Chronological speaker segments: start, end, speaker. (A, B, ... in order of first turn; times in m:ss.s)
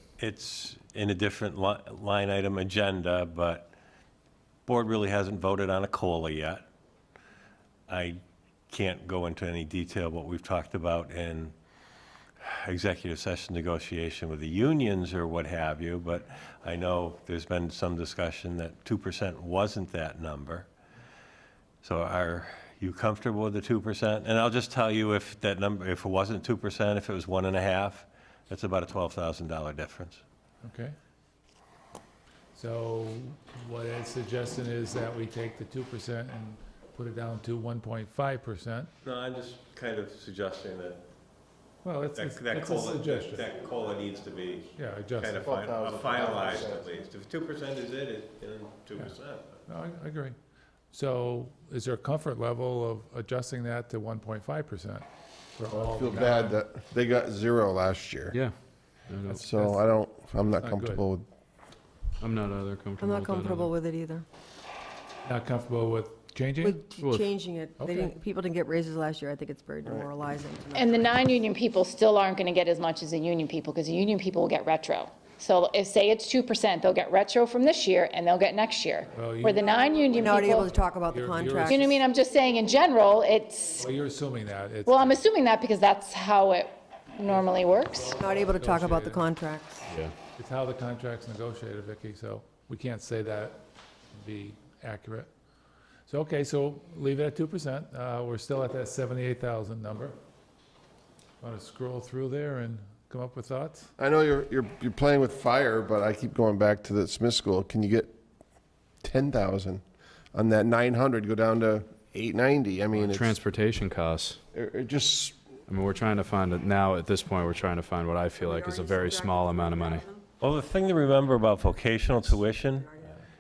0:00.2-0:03.7 A
0:04.7-0:06.7 A
0:07.9-0:11.5 A
0:12.4-0:20.7 A
0:21.8-0:30.2 A
0:30.6-0:31.0 B
0:32.5-0:38.9 B
0:39.0-0:41.0 A
0:41.8-0:43.5 B
0:42.2-0:49.6 A
0:44.8-0:45.5 B
0:45.4-0:46.9 C
0:49.7-0:50.3 B
0:50.9-0:55.0 B
0:55.6-0:56.6 B
0:55.8-0:58.4 C
0:59.1-0:59.8 D
0:59.3-1:01.2 C
1:00.5-1:01.1 B
1:02.2-1:03.7 D
1:03.0-1:04.2 E
1:05.2-1:06.8 B
1:06.6-1:11.1 E
1:07.0-1:07.3 D
1:07.8-1:08.2 B
1:10.7-1:20.7 F
1:19.1-1:22.0 B
1:20.1-1:22.0 E
1:21.6-1:23.8 F
1:23.8-1:25.3 B
1:24.9-1:28.1 F
1:27.2-1:29.3 B
1:28.1-1:29.9 E
1:29.9-1:30.1 D
1:30.4-1:35.3 B
1:36.1-1:40.2 B
1:41.4-1:43.9 B
1:44.0-1:48.2 C
1:49.0-1:49.8 C
1:50.3-1:53.4 C
1:52.9-1:54.4 D
1:54.5-1:55.4 C
1:55.7-2:00.1 D
1:58.4-2:00.3 E
2:00.4-2:02.9 A
2:02.4-2:03.2 E